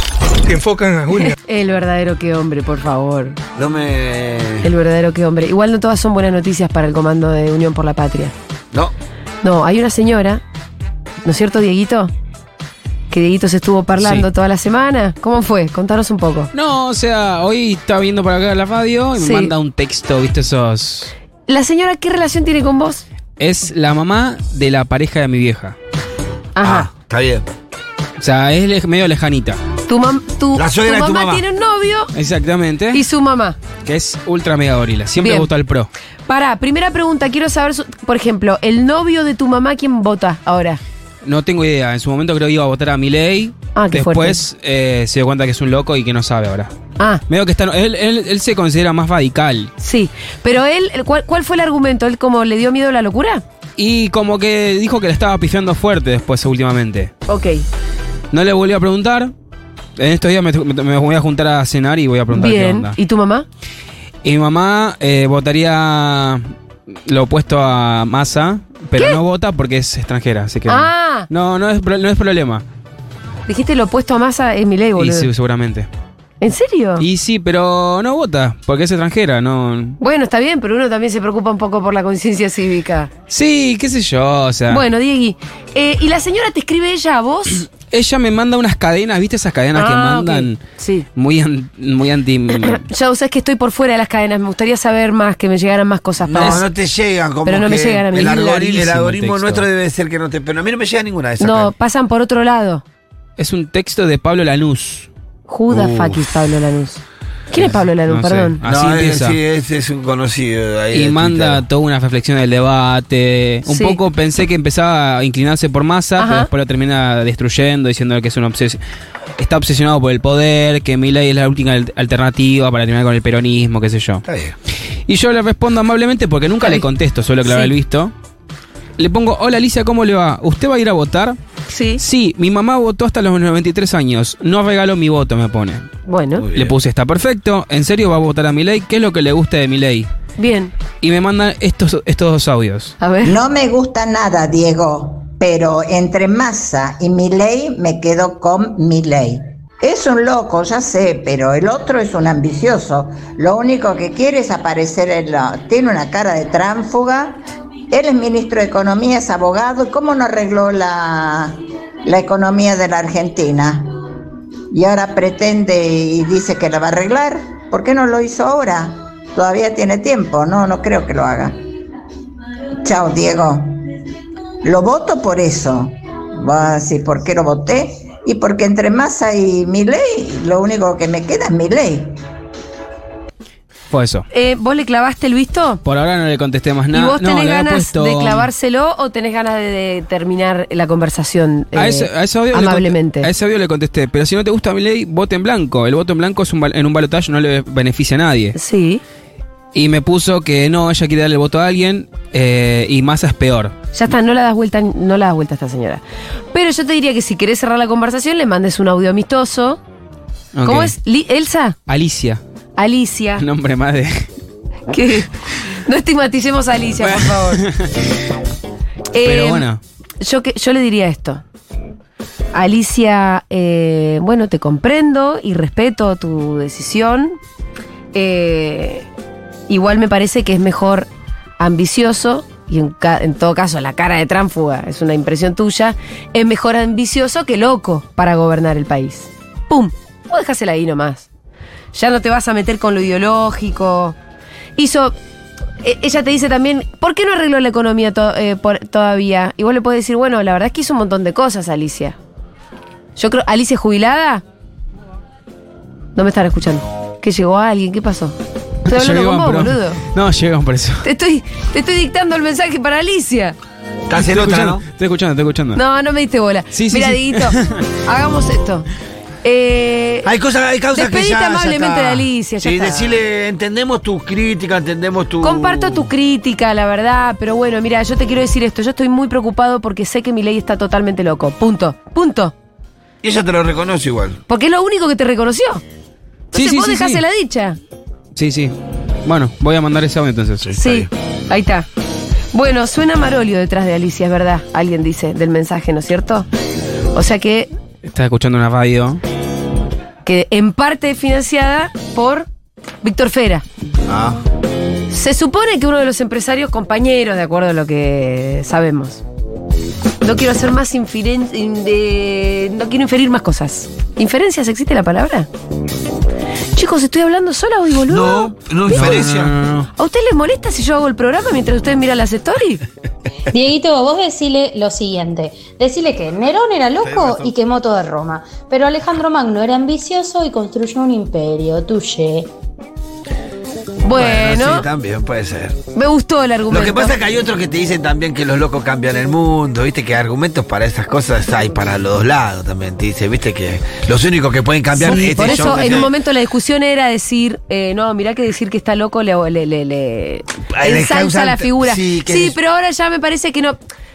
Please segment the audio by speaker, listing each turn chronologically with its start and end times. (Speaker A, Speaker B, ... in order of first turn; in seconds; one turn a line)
Speaker A: 1.3-3.4
Speaker B: 3.5-4.7
Speaker A: 4.6-8.3
Speaker A: 9.4-10.4
Speaker A: 11.2-12.1
Speaker A: 13.1-16.5
Speaker C: 14.0-14.2
Speaker C: 16.5-21.1
Speaker A: 19.2-19.5
Speaker A: 21.5-23.0
Speaker C: 23.4-25.8
Speaker A: 26.6-26.9
Speaker B: 26.6-27.4
Speaker C: 28.2-29.6
Speaker A: 29.9-32.1
Speaker B: 30.6-31.4
Speaker C: 32.1-33.0
Speaker A: 32.9-33.6
Speaker C: 33.8-35.9
Speaker A: 35.2-35.5
Speaker A: 36.3-40.8
Speaker C: 41.2-46.7
Speaker A: 43.8-44.4
Speaker C: 47.3-49.7
Speaker A: 49.8-53.4
Speaker C: 53.8-57.1
Speaker A: 57.3-57.6
Speaker C: 58.3-59.3
Speaker C: 60.0-63.0
Speaker A: 62.3-63.5
Speaker C: 64.2-66.4
Speaker C: 67.1-72.6
Speaker A: 68.9-69.2
Speaker A: 70.7-71.3
Speaker A: 73.5-75.3
Speaker C: 75.0-75.9
Speaker A: 76.4-77.0
Speaker C: 77.0-80.0
Speaker A: 80.0-83.1
Speaker C: 83.3-84.8
Speaker A: 84.7-87.6
Speaker C: 87.9-90.6
Speaker A: 89.7-91.0
Speaker C: 91.2-92.8
Speaker A: 92.6-96.6
Speaker B: 96.2-101.7
Speaker C: 96.3-96.6
Speaker A: 97.4-98.8
Speaker C: 98.5-99.7
Speaker A: 101.4-102.8
Speaker C: 103.4-105.1
Speaker A: 105.5-108.6
Speaker B: 105.7-106.2
Speaker C: 107.5-109.4
Speaker B: 108.6-111.6
Speaker C: 110.9-118.8
Speaker A: 113.7-114.0
Speaker A: 116.2-116.5
Speaker C: 119.4-124.2
Speaker B: 124.2-124.5
Speaker C: 125.1-128.1
Speaker A: 127.4-127.7
Speaker C: 129.0-131.4
Speaker A: 131.7-132.0
Speaker C: 132.0-135.9
Speaker A: 136.1-136.4
Speaker B: 136.4-136.7
Speaker C: 136.5-140.1
Speaker A: 140.4-140.7
Speaker C: 141.0-142.9
Speaker A: 143.0-143.3
Speaker D: 143.2-157.4
Speaker D: 157.9-163.9
Speaker D: 164.7-171.5
Speaker D: 172.8-173.8
Speaker D: 174.6-182.2
Speaker C: 183.9-184.2
Speaker A: 184.3-185.8
Speaker C: 185.8-188.5
Speaker A: 186.9-193.3
Speaker C: 191.7-198.6
Speaker A: 198.5-199.0
Speaker C: 199.7-203.7
Speaker A: 203.9-209.8
Speaker C: 210.5-210.9
Speaker A: 210.6-211.8
Speaker C: 211.9-212.4
Speaker A: 212.8-213.4
Speaker C: 213.4-214.3
Speaker A: 214.9-215.3
Speaker A: 215.8-217.6
Speaker C: 217.0-217.9
Speaker A: 219.1-219.7
Speaker C: 219.2-219.8
Speaker A: 220.2-221.4
Speaker A: 222.5-227.4
Speaker A: 228.1-229.1
Speaker A: 229.7-241.3
Speaker A: 241.9-244.2
Speaker A: 244.8-245.1
Speaker A: 245.8-252.2
Speaker A: 253.2-254.4
Speaker A: 256.1-260.0
Speaker C: 258.9-261.0
Speaker A: 261.0-263.6
Speaker B: 264.1-264.8
Speaker C: 264.2-265.8
Speaker A: 265.7-268.9
Speaker C: 266.7-267.8
Speaker A: 269.4-270.3
Speaker B: 270.2-276.1
Speaker A: 270.9-273.2
Speaker A: 275.4-282.5
Speaker B: 283.2-284.4
Speaker A: 284.5-285.8
Speaker A: 286.5-287.8
Speaker C: 286.5-287.2
Speaker C: 288.4-290.7
Speaker B: 290.6-291.1
Speaker A: 290.8-291.9
Speaker A: 292.5-296.4
Speaker A: 297.1-297.7
Speaker C: 298.0-299.2
Speaker A: 300.2-302.5
Speaker A: 303.0-303.6
Speaker B: 304.1-304.4
Speaker A: 305.1-309.2
Speaker A: 310.2-315.5
Speaker A: 316.7-319.2
Speaker B: 318.1-319.5
Speaker C: 318.9-319.9
Speaker A: 319.9-322.8
Speaker E: 323.5-332.5
Speaker B: 327.0-327.5
Speaker A: 334.0-334.9
Speaker B: 334.1-335.8
Speaker A: 335.9-337.1
Speaker B: 336.7-346.1
Speaker A: 345.0-353.8
Speaker B: 350.7-352.6